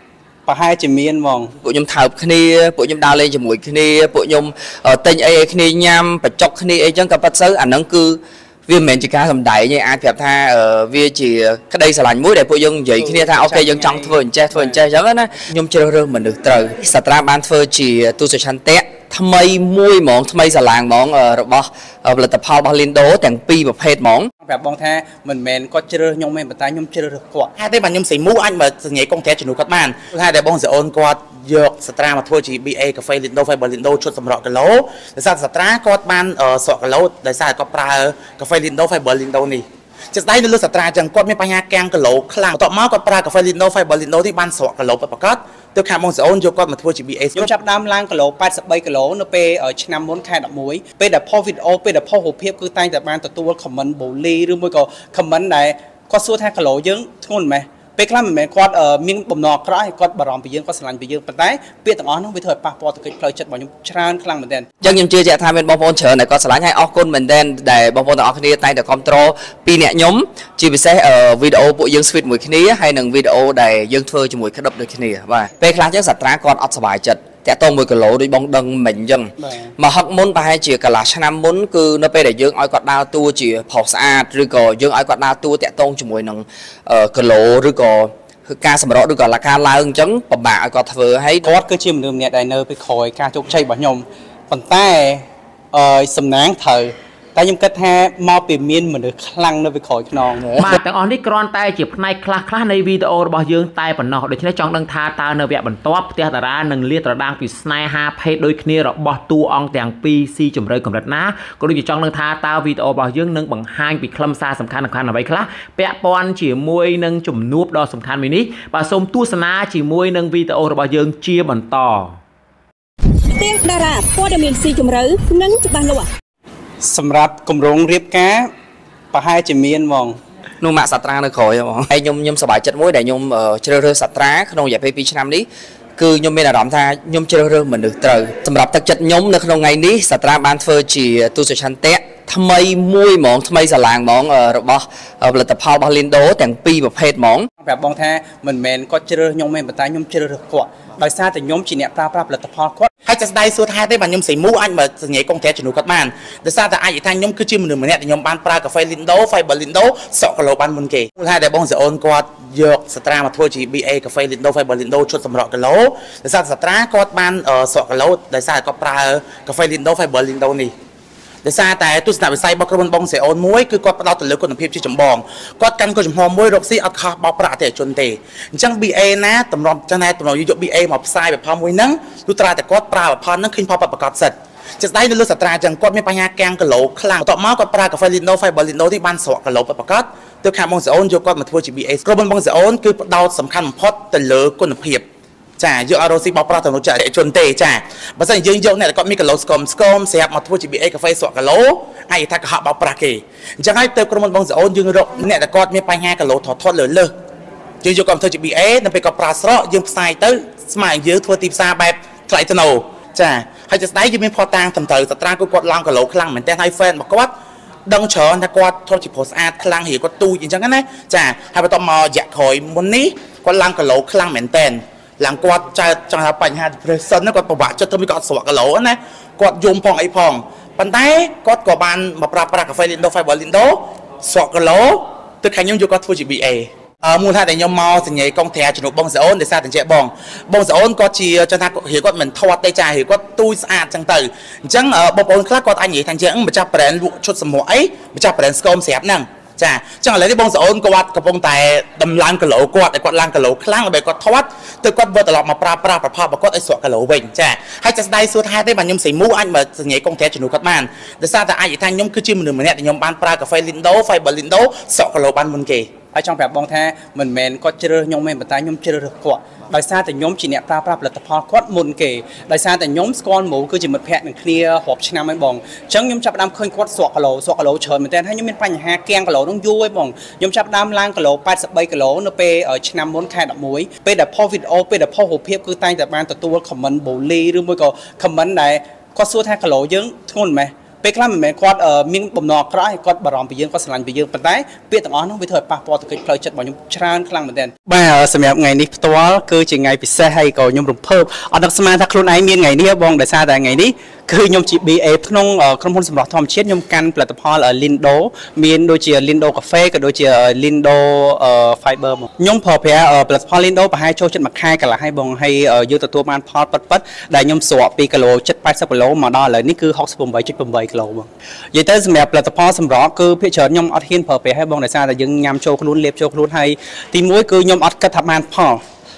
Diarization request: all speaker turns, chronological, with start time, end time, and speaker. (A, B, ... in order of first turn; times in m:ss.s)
0:00.5-0:01.5 A
0:01.6-0:24.3 B
0:13.0-0:14.8 A
0:24.4-0:27.5 A
0:27.6-0:47.5 C
0:47.4-1:04.7 A
1:04.8-1:31.5 B
1:19.4-1:19.7 A
1:31.4-1:40.6 A
1:40.6-2:02.2 D
2:03.3-2:06.1 E
2:06.8-2:08.5 A
2:09.1-2:10.2 A
2:10.6-2:15.5 B
2:16.0-2:27.5 B
2:27.6-2:32.9 A
2:33.1-2:50.7 C
2:51.4-3:15.0 C
3:15.6-3:27.1 C
3:27.8-3:37.3 C
3:37.9-4:25.9 C
4:26.1-5:28.8 A